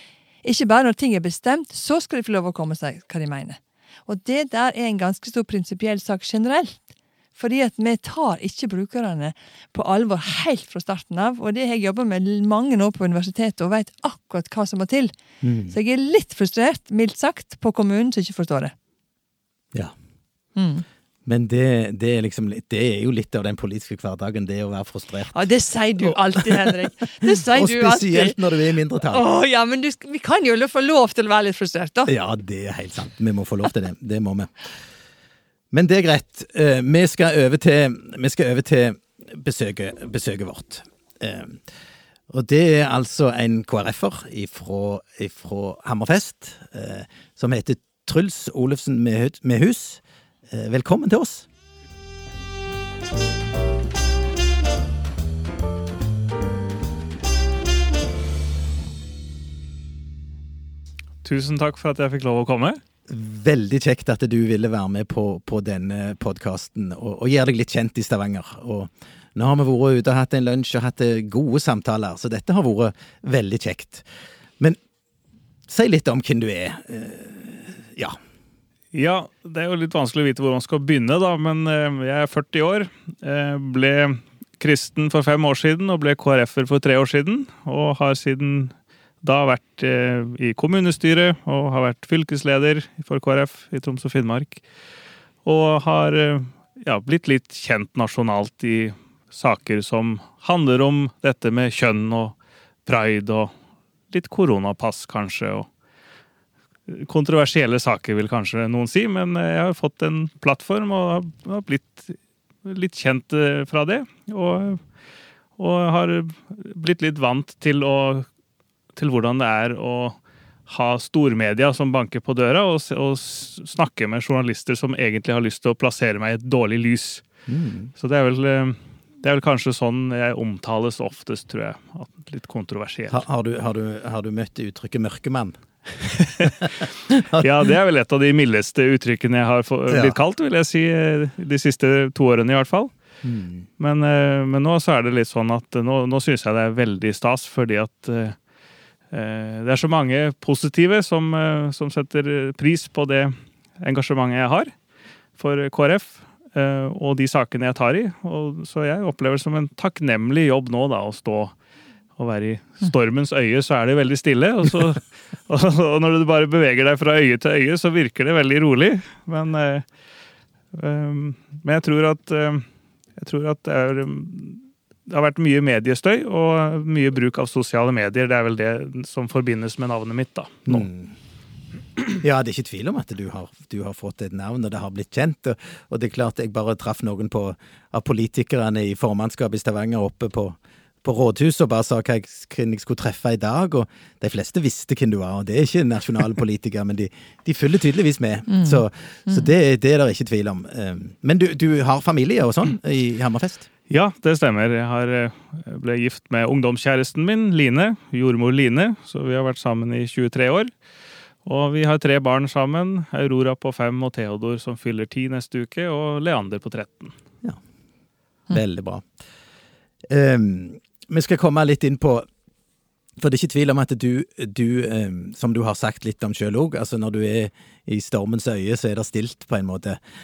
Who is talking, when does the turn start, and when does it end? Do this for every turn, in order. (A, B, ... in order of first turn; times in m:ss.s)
0:00.4-0:15.1 A
0:15.4-0:15.7 B
0:15.7-0:18.7 A
0:20.6-0:20.8 A
0:21.2-0:25.3 B
0:25.3-0:28.4 A
0:26.0-0:26.7 B
0:27.2-0:29.2 B
0:29.0-0:32.1 A
0:32.1-0:34.7 B
0:35.7-0:41.6 B
0:42.3-0:51.4 B
1:01.2-1:02.8 C
1:03.1-1:14.0 B
1:15.7-1:18.2 B
1:18.9-1:34.6 C
1:35.4-1:43.5 C
1:44.1-1:45.7 C
1:46.9-1:54.8 C
1:55.6-1:58.3 C
1:58.9-2:07.2 C
2:07.5-2:07.9 B
2:08.0-2:13.2 C
2:13.1-2:17.5 B
2:16.4-2:16.7 C
2:17.4-2:22.9 C
2:19.9-2:20.2 B
2:23.2-2:23.6 B
2:23.8-2:28.4 C
2:29.1-2:34.7 C
2:35.4-2:41.5 C
2:42.2-2:49.8 C
2:50.7-2:52.6 C
2:53.2-3:00.9 C
3:00.7-3:01.1 B
3:02.2-3:23.7 B
3:18.5-3:19.5 A
3:23.9-3:30.7 C
3:31.4-3:37.1 C
3:38.5-3:39.1 B
3:40.1-3:42.3 B
3:43.2-3:50.0 B